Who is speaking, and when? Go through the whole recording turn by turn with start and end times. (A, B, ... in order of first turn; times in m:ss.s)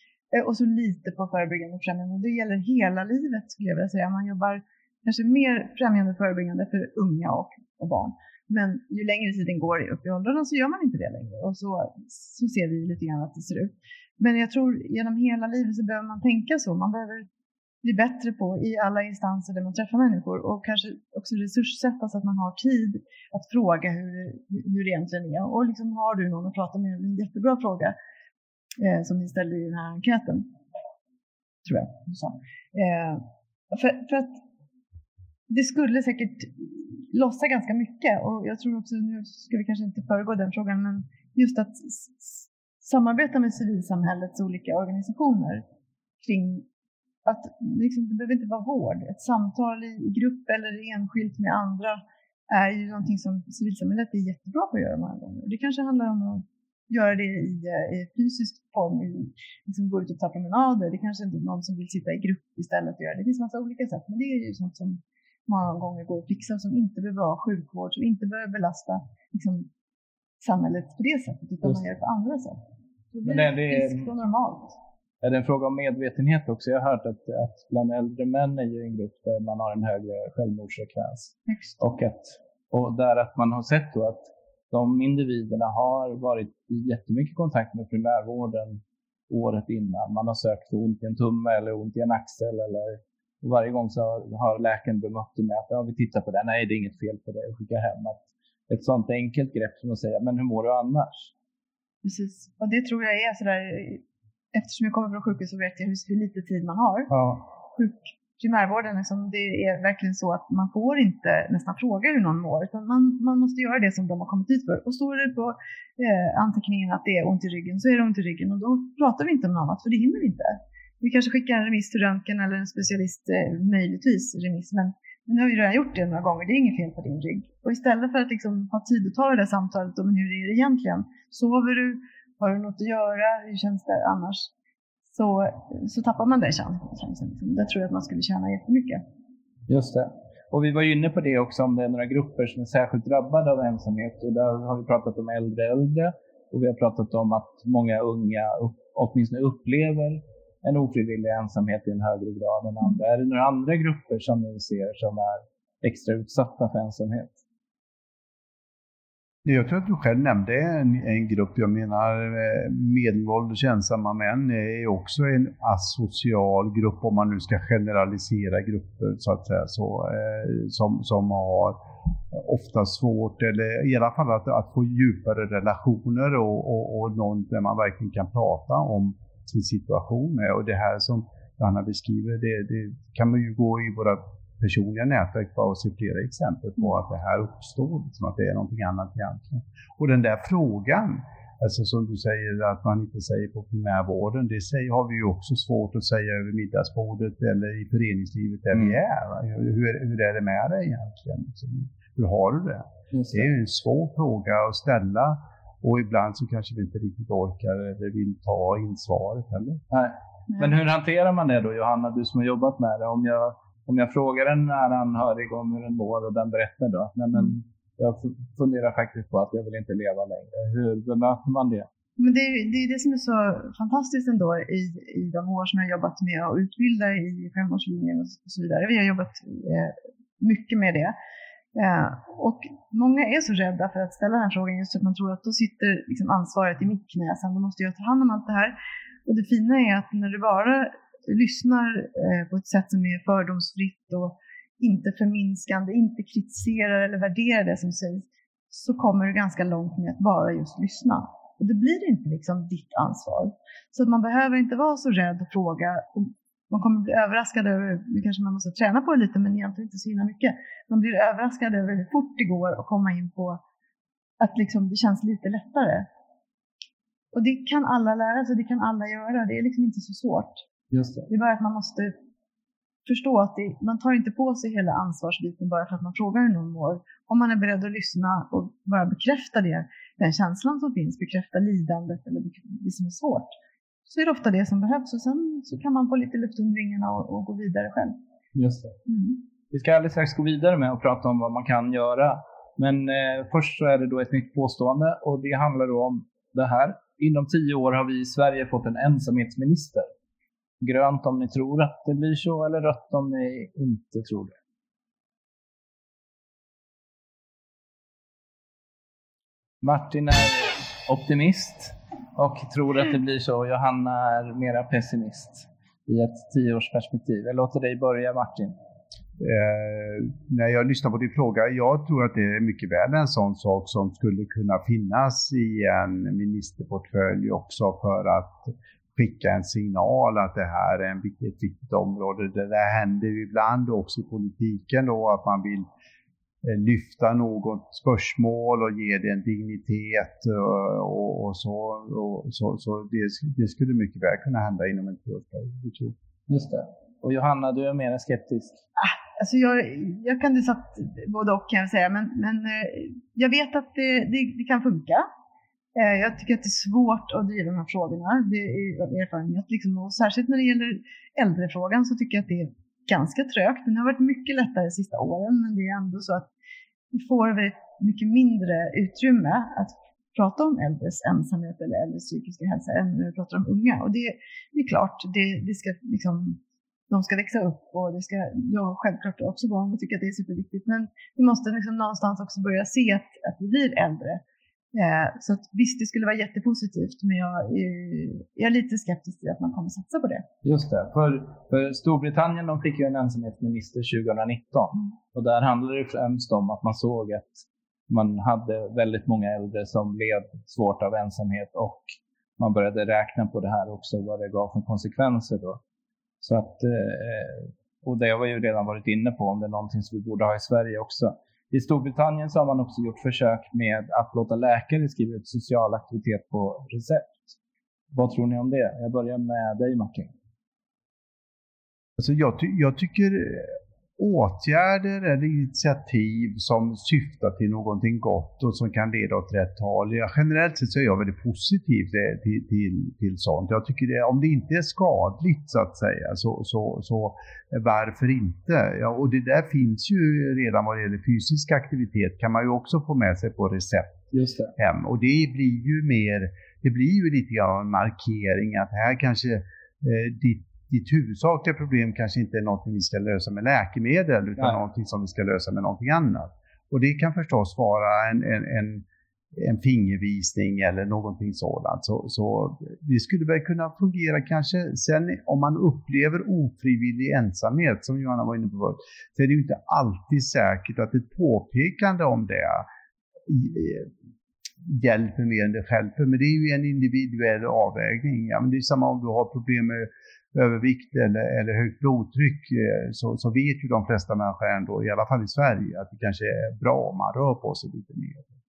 0:00.3-0:17.3 A
0:17.8-0:27.9 A
0:28.8-0:30.5 A
0:31.6-0:34.4 A
0:35.5-0:45.6 A
0:46.2-0:46.6 A
0:47.2-1:09.7 A
1:10.4-1:12.6 A
1:13.1-1:14.8 A
1:13.2-1:14.1 B
1:15.2-1:41.3 B
1:21.5-1:21.8 A
1:42.0-1:47.1 A
1:47.1-1:47.4 B
1:47.7-2:14.5 A
2:15.1-2:19.0 A
2:19.7-2:37.4 B
2:39.4-2:51.8 C
2:52.3-3:29.8 C
3:23.1-3:23.5 B
3:29.9-3:41.9 B
3:42.2-3:51.1 A
3:51.7-4:23.6 A
4:24.4-4:26.1 A
4:27.3-4:30.6 A
4:30.9-4:31.3 B
4:31.3-4:32.1 A
4:33.0-4:43.5 A
4:44.1-4:48.2 A
4:48.5-4:49.0 B
4:49.1-4:49.4 A
4:49.7-5:00.1 B
5:00.8-5:04.6 B
5:09.8-5:18.7 B
5:19.4-5:35.9 C
5:36.6-5:46.2 C
5:46.5-5:48.8 B
5:49.0-5:55.2 A
5:55.9-6:06.5 A
6:07.1-6:24.4 A
6:24.9-6:30.4 A
6:30.6-6:42.0 B
6:42.6-6:45.8 B
6:46.4-6:57.5 B
6:58.1-7:00.3 B
7:02.2-7:24.2 C
7:24.3-7:24.7 B
7:24.8-7:52.9 C
7:53.5-7:54.1 C
7:54.8-8:08.6 C